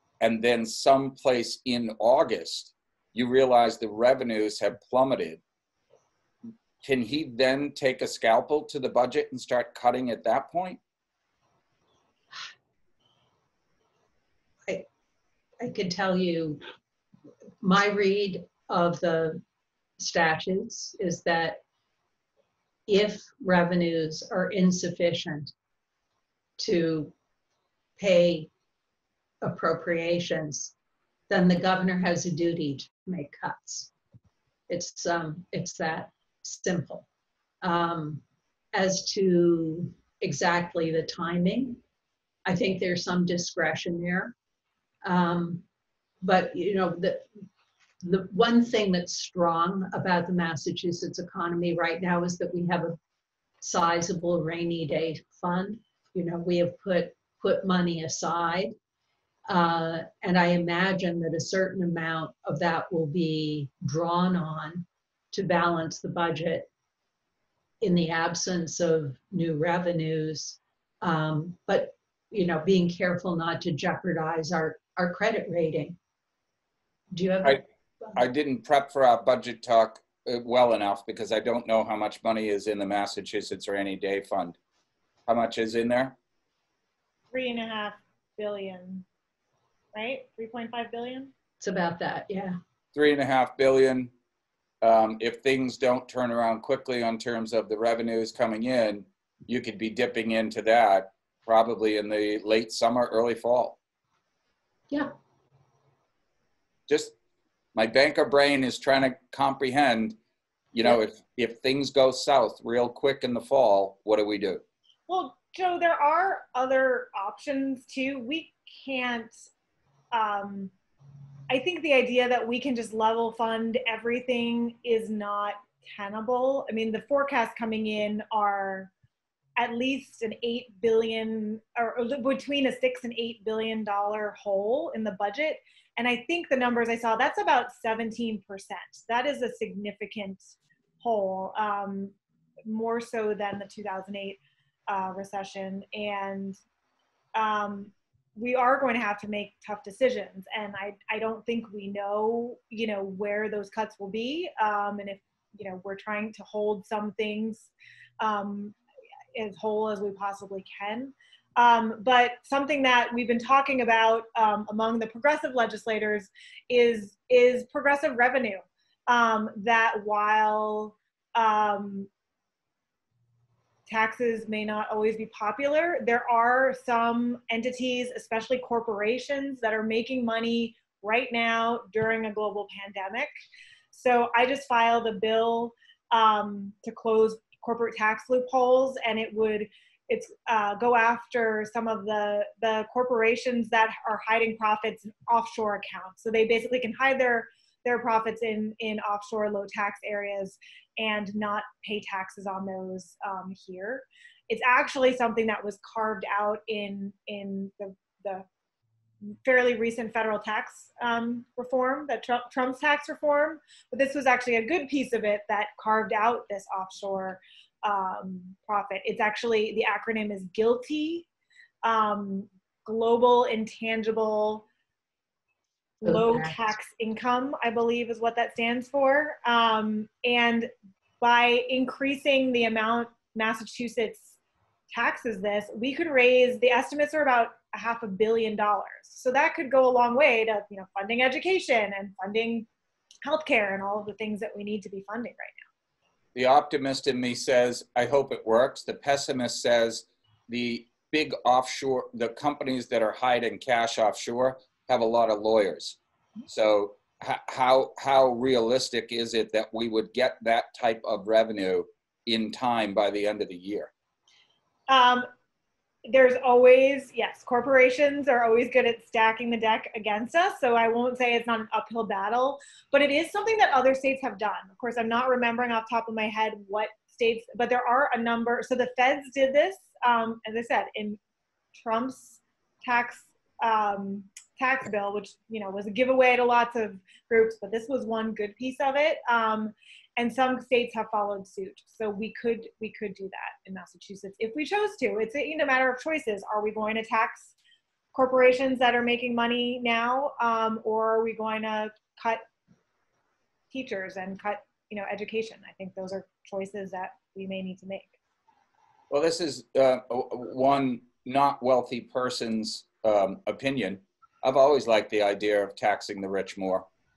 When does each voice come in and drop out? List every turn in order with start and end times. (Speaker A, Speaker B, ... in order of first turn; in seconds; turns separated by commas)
Speaker A: 0.2-5.4, Speaker A: 6.8-10.8, Speaker B: 15.6-16.6, Speaker B: 17.6-19.4, Speaker B: 20.0-21.6, Speaker B: 22.9-25.5, Speaker B: 26.6-27.1, Speaker B: 28.0-28.5, Speaker B: 29.4-30.7, Speaker B: 31.3-33.9, Speaker B: 34.7-37.1, Speaker B: 37.6-41.8, Speaker B: 42.5-44.3, Speaker B: 45.0-45.6, Speaker B: 46.2-47.3, Speaker B: 48.0-53.0, Speaker B: 53.6-58.7, Speaker B: 59.5-66.7, Speaker B: 67.8-76.0, Speaker B: 77.1-78.2, Speaker A: 78.2-84.6, Speaker A: 85.3-86.2, Speaker C: 87.3-89.0, Speaker C: 89.9-91.3, Speaker B: 91.6-92.6, Speaker A: 92.9-94.1, Speaker A: 94.8-103.8, Speaker A: 106.9-107.1, Speaker A: 107.8-110.2, Speaker A: 110.7-114.6, Speaker C: 115.1-119.5, Speaker C: 120.1-120.7, Speaker C: 121.5-128.9, Speaker C: 129.6-142.1, Speaker C: 142.7-146.6, Speaker C: 147.3-158.8, Speaker C: 159.3-172.1, Speaker C: 173.9-183.3, Speaker C: 183.9-208.5, Speaker C: 209.4-221.3, Speaker C: 221.8-224.7, Speaker C: 226.0-234.4, Speaker B: 226.0-226.7, Speaker C: 234.9-242.7, Speaker C: 243.2-245.6, Speaker A: 246.3-263.9, Speaker C: 264.9-265.3, Speaker C: 266.1-281.2, Speaker C: 281.8-297.5, Speaker C: 298.1-302.4, Speaker C: 303.7-308.1, Speaker A: 309.1-316.9